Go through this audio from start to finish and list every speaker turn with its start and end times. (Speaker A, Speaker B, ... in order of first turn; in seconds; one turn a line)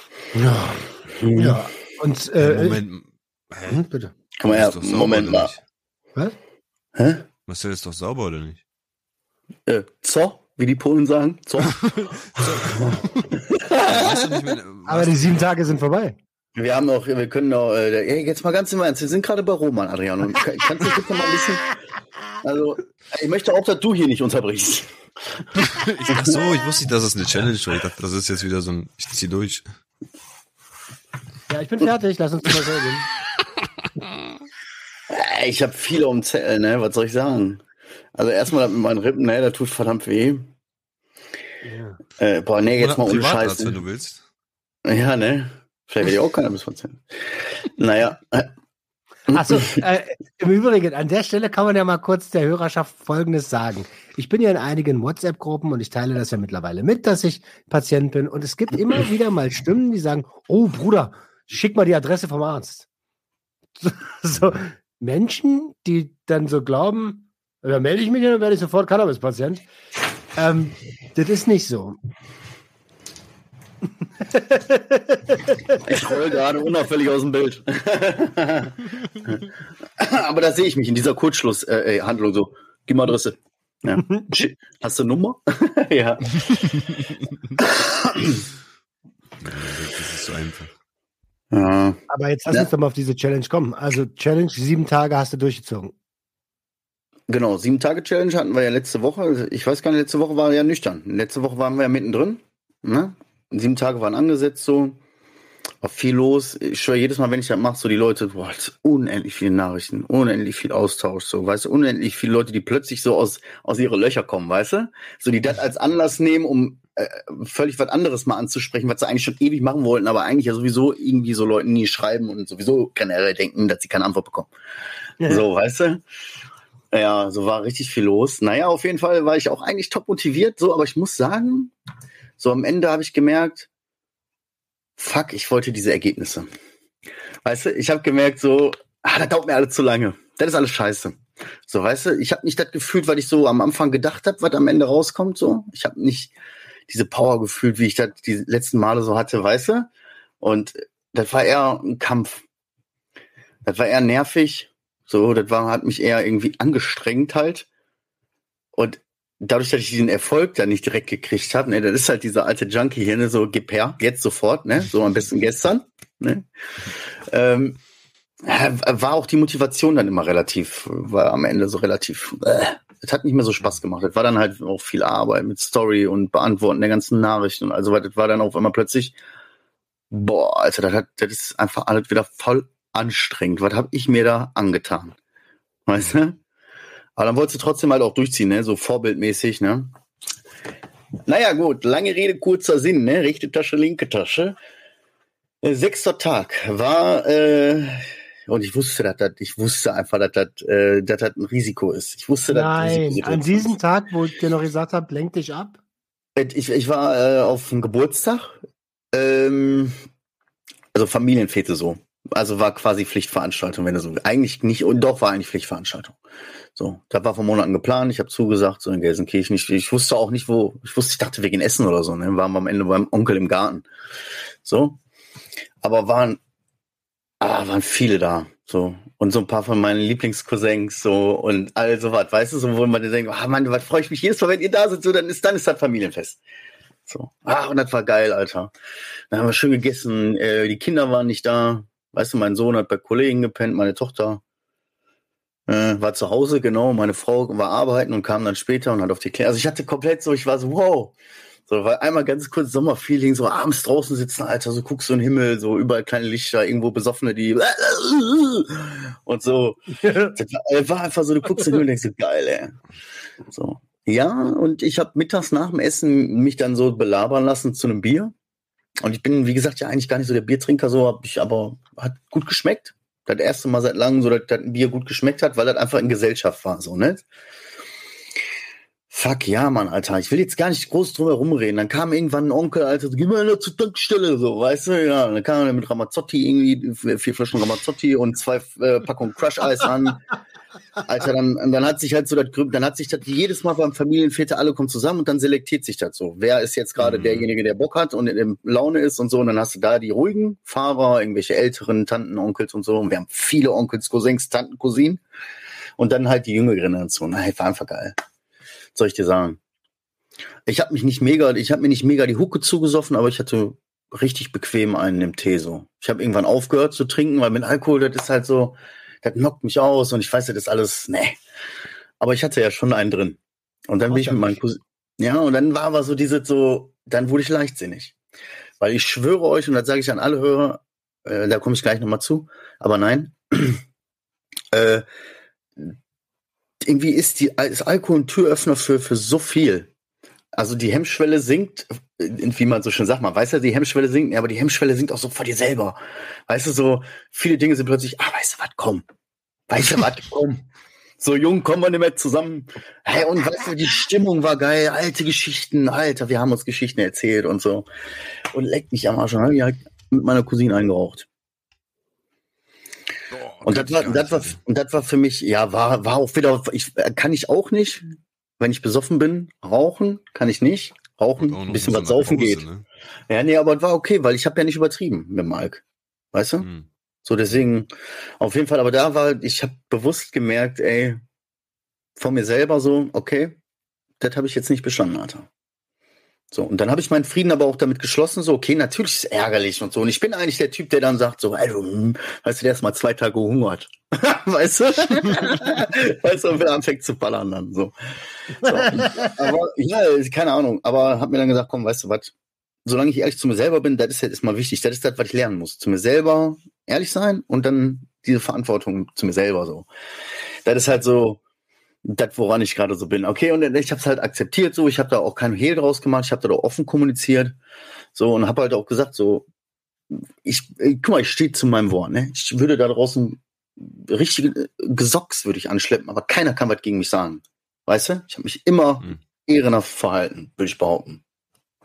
Speaker A: 0.3-2.8
Speaker B: 1.2-1.6
Speaker C: 2.4-3.8
Speaker A: 3.6-4.1
Speaker B: 4.4-5.5
Speaker C: 4.5-5.6
Speaker B: 7.0-7.3
Speaker C: 7.5-8.6
Speaker B: 9.7-11.8
Speaker C: 11.9-15.4
Speaker B: 13.4-14.6
Speaker A: 14.9-16.2
Speaker B: 16.6-21.7
Speaker B: 22.4-24.9
Speaker C: 25.6-29.6
Speaker B: 26.1-26.4
Speaker A: 31.5-33.1
Speaker B: 35.1-37.6
Speaker B: 38.1-40.5
Speaker A: 41.6-42.0
Speaker B: 42.2-43.8
Speaker C: 42.8-44.2
Speaker B: 44.9-48.5
Speaker B: 49.3-49.8
Speaker A: 49.3-62.9
Speaker A: 63.8-69.6
Speaker A: 70.3-72.0
Speaker A: 74.2-75.8
Speaker B: 75.8-79.4
Speaker B: 80.0-86.4
Speaker A: 84.0-84.3
Speaker B: 87.6-88.4
Speaker C: 89.4-90.7
Speaker B: 91.5-92.7
Speaker A: 92.1-95.9
Speaker B: 97.3-105.0
Speaker B: 105.8-124.5
Speaker A: 125.2-125.5
Speaker B: 125.2-126.0
Speaker B: 126.9-131.7
Speaker B: 132.4-133.7
Speaker B: 135.0-136.5
Speaker B: 137.4-146.3
Speaker B: 146.9-149.9
Speaker B: 150.4-152.4
Speaker B: 153.6-157.7
Speaker B: 158.8-167.8
Speaker B: 168.4-179.2
Speaker B: 180.1-185.2
Speaker B: 185.9-186.4
Speaker B: 187.2-189.9
Speaker B: 191.3-194.6
Speaker B: 195.6-203.7
Speaker A: 202.5-205.8
Speaker B: 206.4-208.6
Speaker B: 209.1-210.0
Speaker B: 210.9-216.2
Speaker B: 216.8-223.9
Speaker B: 224.6-225.0
Speaker B: 225.8-226.4
Speaker B: 227.4-236.4
Speaker B: 237.1-238.7
Speaker B: 239.3-244.4
Speaker B: 245.7-251.1
Speaker B: 251.7-262.8
Speaker A: 260.0-260.4
Speaker B: 263.5-268.3
Speaker B: 269.0-277.2
Speaker B: 279.1-290.2
Speaker B: 291.0-305.2
Speaker C: 297.0-297.5
Speaker B: 306.0-308.1
Speaker B: 308.9-309.6
Speaker B: 310.6-321.4
Speaker B: 322.2-328.1
Speaker A: 324.1-324.6
Speaker B: 328.8-333.8
Speaker B: 334.7-335.1
Speaker B: 336.8-339.9
Speaker B: 340.6-349.1
Speaker B: 349.7-350.6
Speaker B: 351.2-357.9
Speaker B: 358.5-361.3
Speaker C: 363.3-364.6
Speaker B: 363.6-372.6
Speaker C: 371.4-372.9
Speaker B: 373.3-376.7
Speaker C: 376.6-376.9
Speaker B: 377.2-381.2
Speaker B: 382.2-383.6
Speaker B: 384.2-385.5
Speaker B: 386.5-397.9
Speaker B: 398.6-402.3
Speaker A: 398.6-399.4
Speaker B: 402.9-409.9
Speaker B: 410.6-411.4
Speaker B: 412.0-417.6
Speaker B: 418.1-419.5
Speaker B: 420.1-431.2